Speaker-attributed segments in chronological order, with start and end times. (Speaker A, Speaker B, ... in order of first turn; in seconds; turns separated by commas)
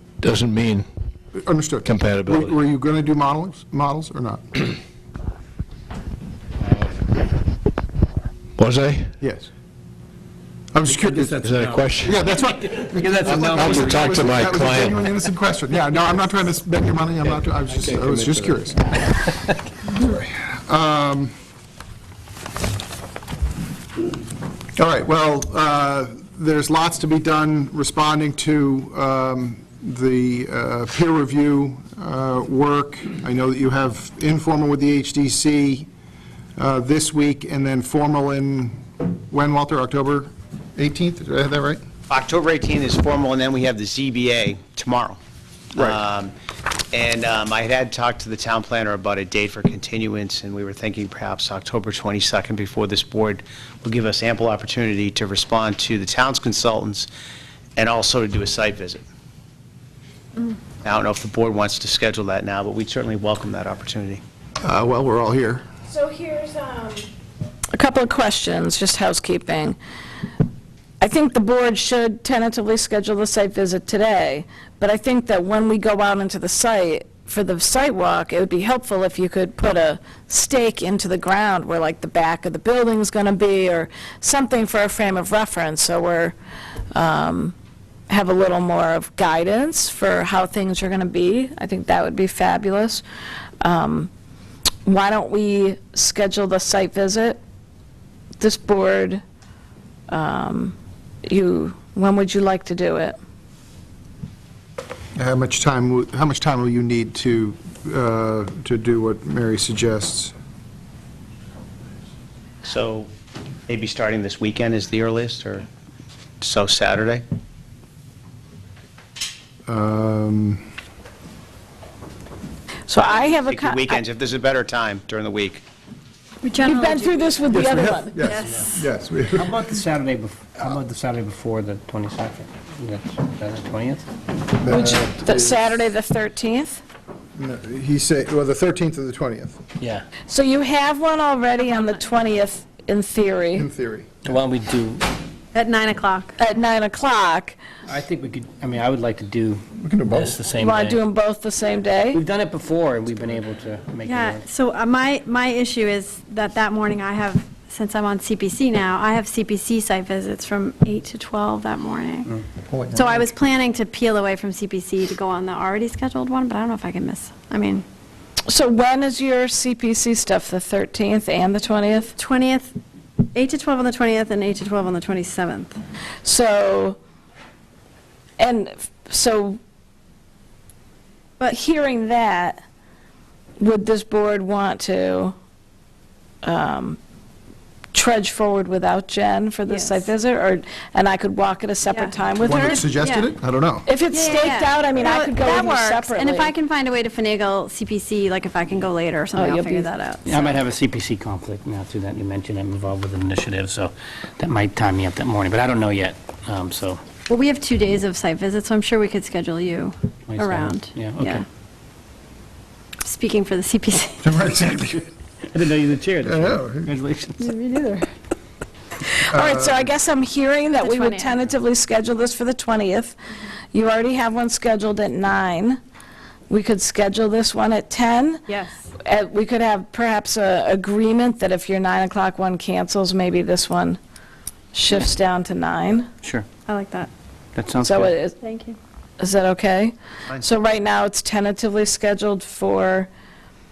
Speaker A: 0.2-0.9, Speaker B: 1.3-4.8, Speaker A: 1.8-2.5, Speaker A: 8.6-9.1, Speaker B: 9.2-9.5, Speaker B: 10.7-11.4, Speaker C: 11.2-11.9, Speaker A: 11.3-12.4, Speaker B: 12.0-18.9, Speaker C: 13.1-13.6, Speaker A: 13.3-15.0, Speaker B: 19.9-21.3, Speaker B: 24.8-35.9, Speaker B: 36.6-41.8, Speaker D: 42.1-45.2, Speaker D: 45.7-46.3, Speaker D: 46.9-57.1, Speaker D: 57.8-59.0, Speaker D: 60.8-64.2, Speaker B: 64.6-65.6, Speaker E: 65.9-67.1, Speaker E: 67.7-69.8, Speaker E: 71.0-86.3, Speaker E: 86.9-87.5, Speaker E: 88.1-93.0, Speaker E: 93.6-94.1, Speaker E: 94.8-97.4, Speaker E: 98.4-99.2, Speaker E: 100.1-103.2, Speaker B: 105.2-110.3, Speaker D: 112.6-113.1, Speaker D: 113.7-115.7, Speaker D: 116.4-117.2, Speaker B: 119.7-120.6, Speaker E: 122.9-124.0, Speaker D: 123.5-125.6, Speaker F: 126.4-127.6, Speaker E: 126.6-128.3, Speaker B: 127.5-129.6, Speaker F: 128.2-128.8, Speaker C: 129.4-134.0, Speaker B: 134.6-135.8, Speaker E: 134.7-136.8, Speaker B: 137.3-139.6, Speaker E: 140.3-143.7, Speaker B: 143.5-144.2, Speaker C: 144.2-145.1, Speaker F: 145.5-146.3, Speaker E: 146.4-147.6, Speaker C: 147.9-151.0, Speaker B: 149.8-150.4, Speaker E: 150.6-152.2, Speaker C: 152.1-154.4, Speaker F: 154.0-162.4, Speaker B: 162.7-163.2, Speaker F: 162.9-167.8, Speaker E: 168.5-172.1, Speaker F: 172.2-172.7, Speaker F: 173.3-175.8, Speaker E: 176.2-177.0, Speaker E: 178.4-179.6, Speaker E: 181.5-182.6, Speaker E: 183.6-185.3, Speaker E: 186.4-187.0, Speaker E: 187.9-192.8, Speaker F: 189.7-190.0, Speaker F: 191.9-193.3, Speaker B: 192.4-193.9, Speaker E: 193.8-196.5, Speaker F: 194.1-200.6, Speaker E: 199.3-199.9, Speaker C: 200.3-207.0, Speaker F: 207.3-211.4, Speaker C: 210.3-211.4, Speaker F: 213.0-214.2, Speaker B: 214.2-215.1, Speaker C: 215.5-217.4, Speaker B: 216.2-216.9, Speaker F: 217.4-218.1, Speaker E: 219.3-223.2, Speaker B: 219.3-219.9, Speaker F: 220.7-221.4, Speaker E: 223.7-225.8, Speaker E: 226.5-228.4, Speaker F: 228.5-228.8, Speaker E: 229.0-234.0, Speaker E: 234.7-236.1, Speaker C: 236.2-236.5, Speaker F: 236.7-237.1, Speaker C: 237.5-238.1, Speaker E: 237.8-238.3, Speaker F: 238.4-238.8, Speaker E: 239.2-243.1